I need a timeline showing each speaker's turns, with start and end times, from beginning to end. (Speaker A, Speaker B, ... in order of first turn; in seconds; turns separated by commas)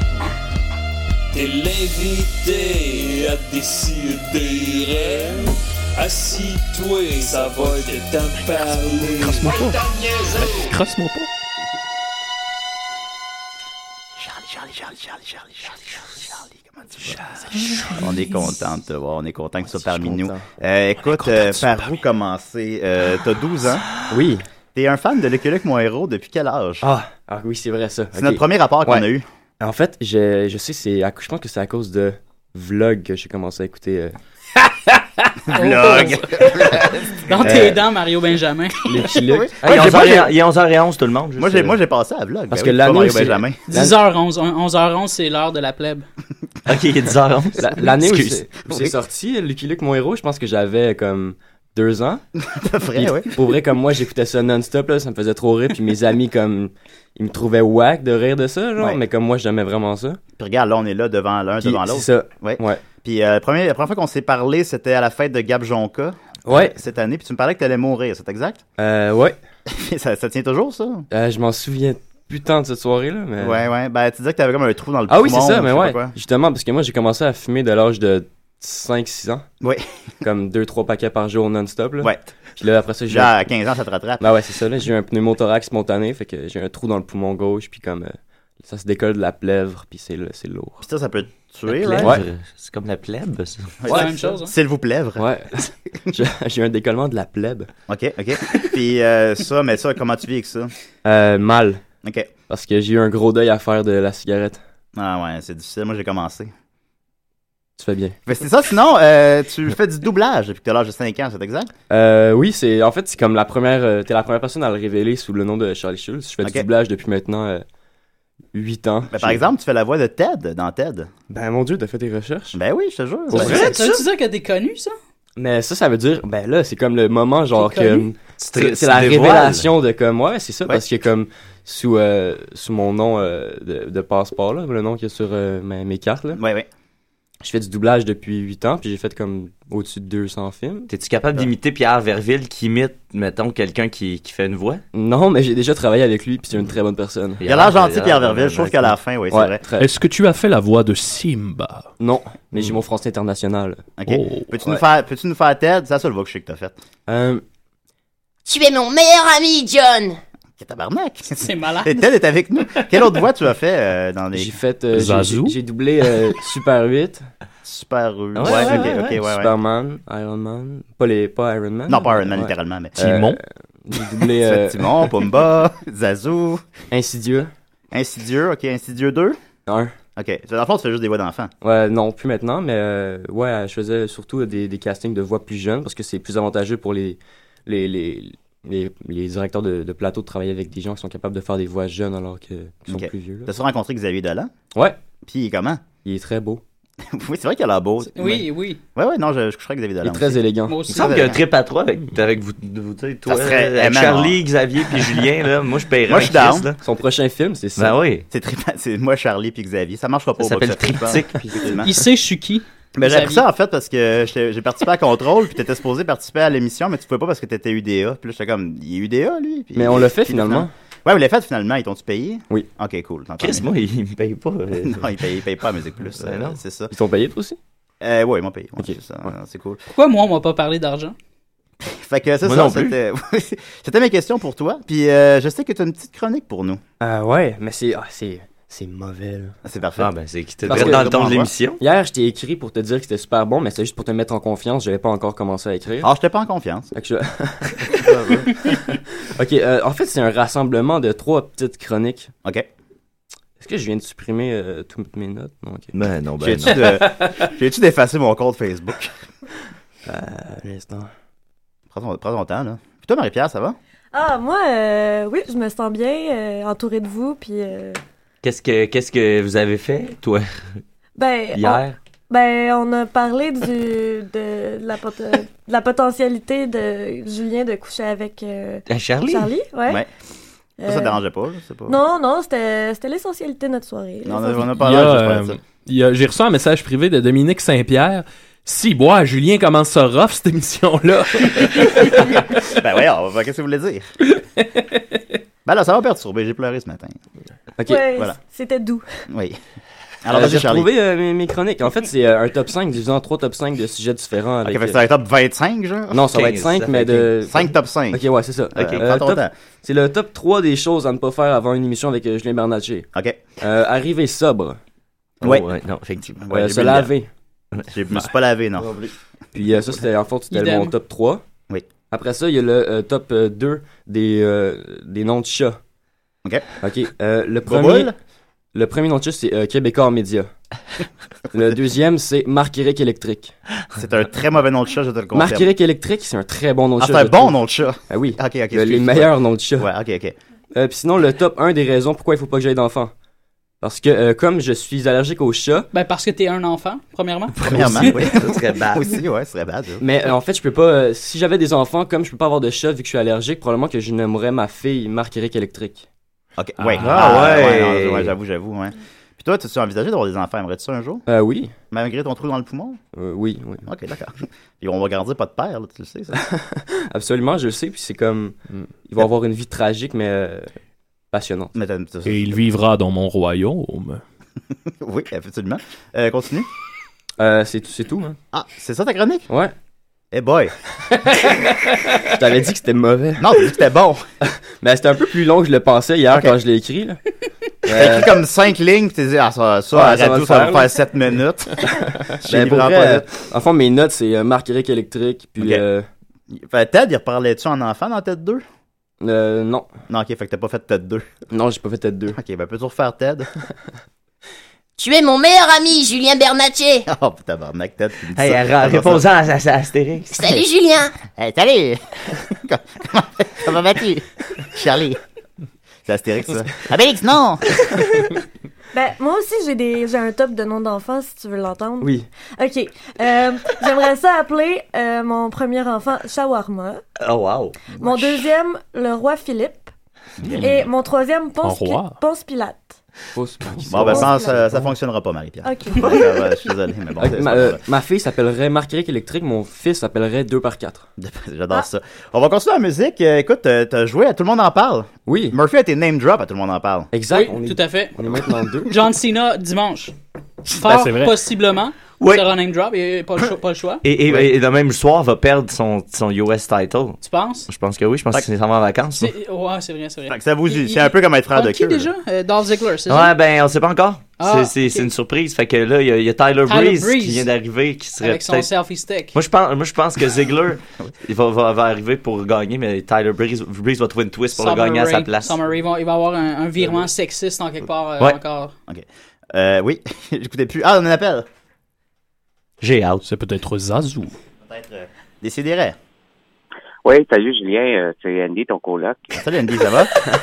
Speaker A: 1.3-10.8, Speaker B: 9.2-9.8, Speaker B: 10.4-11.3, Speaker C: 14.2-17.2, Speaker B: 17.6-17.9, Speaker C: 17.9-23.9, Speaker D: 19.7-20.4, Speaker B: 21.1-21.8, Speaker D: 24.1-24.4, Speaker C: 24.8-26.9, Speaker D: 26.8-29.1, Speaker C: 28.1-29.2, Speaker D: 29.6-34.1, Speaker C: 35.5-37.7, Speaker E: 35.5-38.8, Speaker D: 37.4-37.8, Speaker D: 38.8-40.3, Speaker C: 39.1-40.1, Speaker F: 39.6-41.8, Speaker C: 41.4-43.6, Speaker D: 42.5-44.0, Speaker E: 43.7-46.0, Speaker F: 46.6-48.4, Speaker D: 47.6-52.2, Speaker C: 52.4-53.4, Speaker D: 52.9-60.2, Speaker C: 60.4-68.6, Speaker D: 61.6-62.8, Speaker D: 66.5-66.8, Speaker D: 68.8-69.3, Speaker C: 69.7-71.0, Speaker D: 71.1-73.6, Speaker C: 73.4-76.1, Speaker D: 75.1-79.5, Speaker D: 80.2-83.3, Speaker C: 83.1-84.2, Speaker D: 84.2-90.8, Speaker C: 90.8-92.2, Speaker F: 91.8-93.8, Speaker D: 91.9-92.2, Speaker C: 93.8-95.6, Speaker D: 93.9-94.3, Speaker E: 93.9-94.5, Speaker D: 95.2-97.7, Speaker C: 97.9-100.7, Speaker D: 101.0-101.8, Speaker C: 102.0-102.3, Speaker D: 102.5-104.6, Speaker C: 104.9-106.5, Speaker D: 107.8-108.2, Speaker C: 108.2-111.7, Speaker D: 111.9-117.6, Speaker D: 118.5-119.4, Speaker C: 119.1-121.1, Speaker D: 121.3-122.6, Speaker C: 122.5-123.7, Speaker D: 123.3-123.7, Speaker F: 123.3-124.0, Speaker E: 123.4-124.9, Speaker D: 125.4-136.4, Speaker E: 127.6-128.0, Speaker F: 128.4-129.7, Speaker C: 136.3-136.7, Speaker D: 137.4-140.9, Speaker F: 140.9-144.8, Speaker D: 144.9-147.4, Speaker F: 147.4-148.9, Speaker C: 147.4-149.6, Speaker D: 149.3-149.9, Speaker B: 149.8-151.9, Speaker D: 152.0-153.9, Speaker C: 154.0-156.8, Speaker B: 154.1-154.5, Speaker D: 157.1-157.4, Speaker G: 158.4-160.2, Speaker C: 160.6-164.5, Speaker E: 161.4-162.1, Speaker D: 164.3-167.3, Speaker B: 164.9-165.6, Speaker C: 167.6-169.5, Speaker F: 168.3-169.1, Speaker D: 168.4-174.9, Speaker C: 171.9-173.0, Speaker B: 173.0-173.4, Speaker C: 174.2-176.6, Speaker D: 176.9-177.5, Speaker C: 177.9-179.4, Speaker D: 179.7-179.9, Speaker C: 180.2-181.5, Speaker D: 181.6-193.5, Speaker C: 192.9-194.5, Speaker C: 195.2-195.8, Speaker D: 196.0-196.6, Speaker C: 197.1-201.4, Speaker E: 198.2-198.8, Speaker D: 200.0-200.8, Speaker E: 200.7-201.3, Speaker F: 200.9-206.8, Speaker C: 203.2-204.4, Speaker C: 206.1-206.7, Speaker D: 206.8-208.0, Speaker F: 207.8-208.2, Speaker C: 208.3-211.9, Speaker F: 210.4-211.7, Speaker E: 211.8-213.4, Speaker C: 213.0-223.7, Speaker D: 219.8-220.7, Speaker F: 223.4-225.1, Speaker C: 224.8-226.9, Speaker F: 226.2-226.6, Speaker D: 226.9-227.6, Speaker C: 228.0-229.8, Speaker E: 229.9-231.1, Speaker C: 231.8-236.8, Speaker F: 232.4-232.9, Speaker D: 237.0-239.6, Speaker C: 239.6-240.1, Speaker F: 240.0-241.8, Speaker C: 240.6-241.5, Speaker D: 240.7-241.1, Speaker D: 241.8-246.1, Speaker C: 246.0-246.9, Speaker D: 246.9-252.3, Speaker D: 253.6-255.9, Speaker F: 255.9-257.0, Speaker C: 256.4-259.1, Speaker D: 260.1-261.1, Speaker C: 261.9-263.8, Speaker H: 264.1-268.0, Speaker F: 268.4-270.5, Speaker H: 271.2-280.0, Speaker F: 271.5-272.0, Speaker F: 278.9-279.5, Speaker H: 280.8-281.2, Speaker C: 280.9-282.0, Speaker H: 281.9-284.8, Speaker C: 284.2-285.6, Speaker B: 284.8-292.4, Speaker C: 292.6-294.1, Speaker B: 294.4-294.8, Speaker C: 295.6-297.2, Speaker D: 297.8-298.1, Speaker H: 297.8-299.0, Speaker C: 299.3-299.6, Speaker C: 300.2-300.9, Speaker D: 300.3-305.0, Speaker C: 304.6-306.3, Speaker D: 306.1-313.1, Speaker F: 306.3-307.2, Speaker C: 307.4-309.5, Speaker F: 308.8-309.0, Speaker C: 313.1-313.4, Speaker D: 313.6-314.8, Speaker F: 315.4-316.4, Speaker C: 315.4-315.7, Speaker C: 316.2-317.1, Speaker D: 316.5-317.3, Speaker C: 317.9-319.1, Speaker D: 319.5-321.4, Speaker E: 320.5-320.9, Speaker D: 322.1-325.8, Speaker D: 326.8-328.1, Speaker C: 327.7-328.1, Speaker D: 328.7-330.5, Speaker D: 331.5-333.5, Speaker C: 333.9-335.7, Speaker D: 335.3-337.5, Speaker C: 337.0-340.4, Speaker D: 338.1-339.9, Speaker D: 340.7-343.1, Speaker D: 343.8-345.9, Speaker E: 345.9-348.0, Speaker C: 347.6-350.0, Speaker D: 347.6-348.1, Speaker F: 347.8-349.2, Speaker D: 350.0-356.1, Speaker C: 356.6-361.2, Speaker F: 357.0-358.3, Speaker D: 361.3-361.7, Speaker C: 361.9-363.0, Speaker D: 363.1-363.8, Speaker C: 363.8-366.4, Speaker D: 366.3-370.7, Speaker D: 371.3-371.7, Speaker C: 371.8-372.5, Speaker B: 372.2-374.2, Speaker C: 374.9-376.7, Speaker D: 377.4-378.4, Speaker C: 378.5-379.5, Speaker D: 379.5-379.7, Speaker C: 380.3-380.7, Speaker D: 381.1-381.6, Speaker D: 382.1-383.6, Speaker C: 383.4-384.2, Speaker D: 384.4-387.2, Speaker D: 387.8-388.3, Speaker C: 387.9-393.2, Speaker D: 389.9-390.9, Speaker D: 392.3-396.1, Speaker C: 395.6-395.8, Speaker C: 396.5-398.6, Speaker D: 399.2-399.9, Speaker C: 400.1-401.3, Speaker D: 401.5-402.4, Speaker C: 402.4-403.5, Speaker G: 405.0-407.0, Speaker C: 407.1-409.2, Speaker F: 408.3-410.5, Speaker G: 410.3-411.1, Speaker C: 411.3-415.2, Speaker C: 416.1-418.1, Speaker H: 418.9-427.0, Speaker D: 422.0-422.3, Speaker F: 427.2-427.8, Speaker H: 428.0-429.9, Speaker H: 430.5-433.0, Speaker B: 431.6-432.2, Speaker D: 433.3-434.9, Speaker C: 433.9-437.8, Speaker H: 434.0-434.5, Speaker H: 435.6-436.6, Speaker D: 437.2-441.1, Speaker C: 441.2-447.1, Speaker D: 445.2-445.6, Speaker D: 447.1-448.9, Speaker E: 447.3-448.1, Speaker E: 448.9-450.1, Speaker E: 450.7-454.0, Speaker B: 450.8-451.3, Speaker F: 454.0-459.3, Speaker E: 457.2-457.7, Speaker E: 459.2-463.3, Speaker C: 460.3-462.1, Speaker F: 463.1-468.7, Speaker E: 464.4-465.1, Speaker E: 466.7-467.5, Speaker E: 468.2-469.3, Speaker F: 469.3-475.6, Speaker E: 474.5-478.7, Speaker C: 478.9-481.5, Speaker F: 482.8-483.2, Speaker B: 483.2-484.3, Speaker C: 484.6-486.0, Speaker I: 487.0-489.3, Speaker C: 489.3-490.1